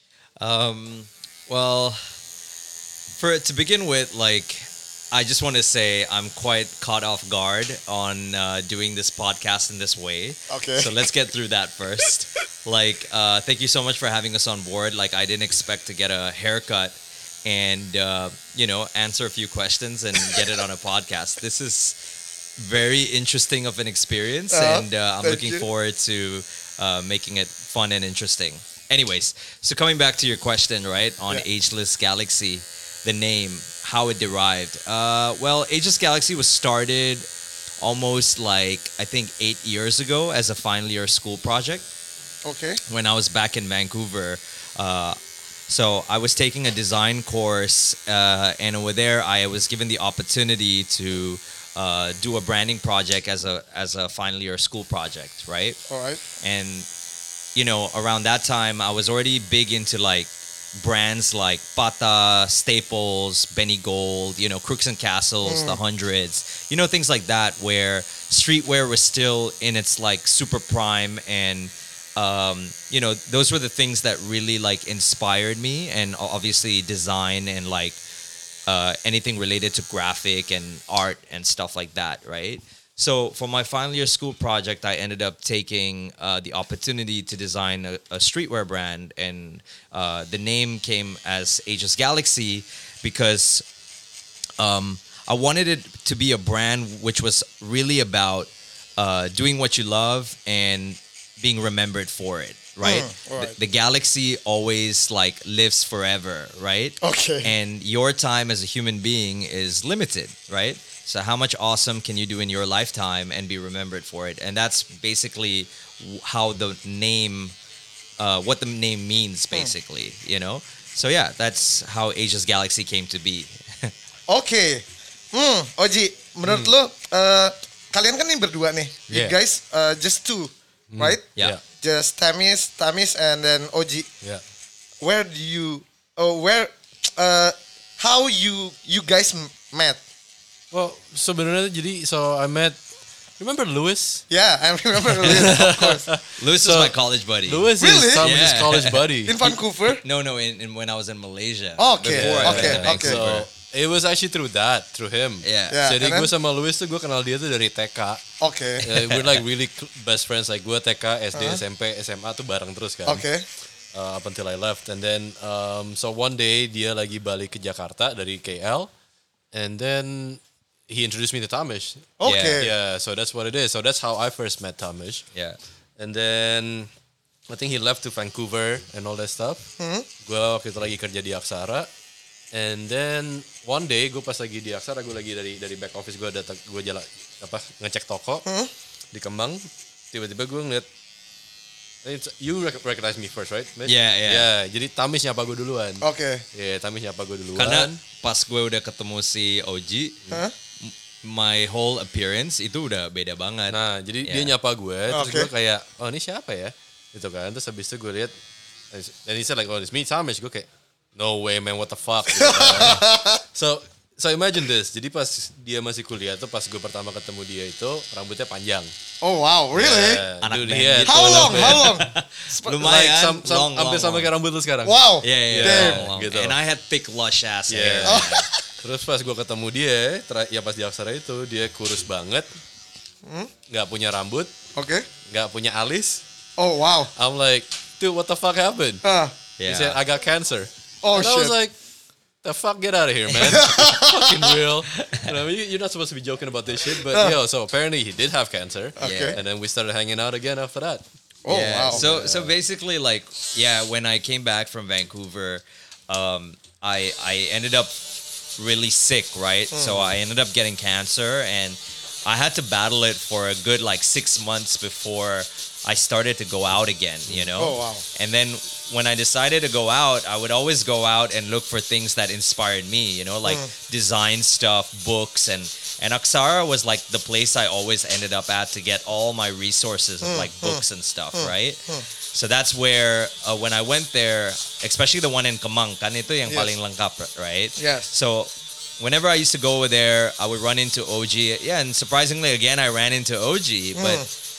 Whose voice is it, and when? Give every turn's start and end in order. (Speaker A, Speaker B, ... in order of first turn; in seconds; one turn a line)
Speaker A: 0.4-2.2
Speaker A: 3.2-37.3
Speaker B: 10.5-11.0
Speaker B: 24.5-25.6
Speaker A: 37.8-41.9
Speaker B: 42.4-42.8
Speaker A: 42.9-55.8
Speaker B: 55.9-56.2
Speaker A: 56.4-56.9
Speaker A: 57.5-78.0
Speaker B: 65.4-65.8
Speaker A: 78.7-93.6
Speaker A: 94.6-117.5
Speaker B: 102.8-103.5
Speaker B: 107.0-107.5
Speaker A: 118.2-123.9
Speaker B: 124.3-134.1
Speaker C: 126.5-126.7
Speaker C: 129.1-129.3
Speaker C: 130.9-131.6
Speaker B: 135.0-140.0
Speaker C: 140.7-142.8
Speaker C: 143.4-144.2
Speaker B: 144.3-146.1
Speaker C: 145.2-146.9
Speaker A: 145.3-145.7
Speaker A: 146.3-149.1
Speaker C: 147.4-149.6
Speaker B: 147.8-148.3
Speaker B: 149.2-150.0
Speaker A: 149.9-153.5
Speaker B: 151.8-153.2
Speaker C: 152.1-158.2
Speaker A: 155.4-155.8
Speaker B: 155.7-156.3
Speaker B: 158.4-159.1
Speaker C: 158.8-163.3
Speaker B: 161.3-161.6
Speaker B: 163.1-163.4
Speaker C: 163.9-168.9
Speaker C: 169.5-175.2
Speaker B: 172.2-172.7
Speaker A: 172.2-172.6
Speaker A: 175.3-175.6
Speaker C: 176.0-176.9
Speaker C: 177.5-179.7
Speaker B: 179.8-180.1
Speaker C: 180.2-181.9
Speaker C: 182.5-188.4
Speaker B: 188.4-188.7
Speaker C: 189.1-190.8
Speaker C: 192.0-198.0
Speaker A: 193.8-194.4
Speaker B: 196.0-196.4
Speaker A: 197.6-200.2
Speaker A: 200.8-204.5
Speaker C: 203.7-208.3
Speaker B: 205.1-205.5
Speaker C: 208.9-218.9
Speaker B: 212.3-213.4
Speaker B: 219.2-220.2
Speaker C: 219.7-222.0
Speaker A: 220.4-224.3
Speaker B: 221.0-222.8
Speaker C: 222.8-226.6
Speaker B: 224.8-226.0
Speaker A: 225.2-228.5
Speaker C: 227.7-232.5
Speaker B: 228.1-228.6
Speaker B: 233.2-233.5
Speaker C: 233.7-234.5
Speaker B: 234.7-235.1
Speaker C: 235.2-236.2
Speaker B: 236.6-237.1
Speaker C: 237.1-239.0
Speaker B: 239.0-239.3
Speaker A: 239.6-240.0
Speaker C: 239.6-241.7
Speaker B: 241.0-241.5
Speaker C: 242.4-251.0
Speaker B: 243.4-244.5
Speaker A: 245.0-245.3
Speaker B: 249.0-249.4
Speaker A: 249.0-249.4
Speaker B: 251.4-252.0
Speaker A: 251.5-258.1
Speaker C: 251.9-252.5
Speaker A: 258.6-294.3
Speaker B: 259.7-260.1
Speaker B: 267.6-268.0
Speaker B: 280.2-280.8
Speaker B: 281.3-282.1
Speaker B: 287.8-288.1
Speaker B: 293.9-294.2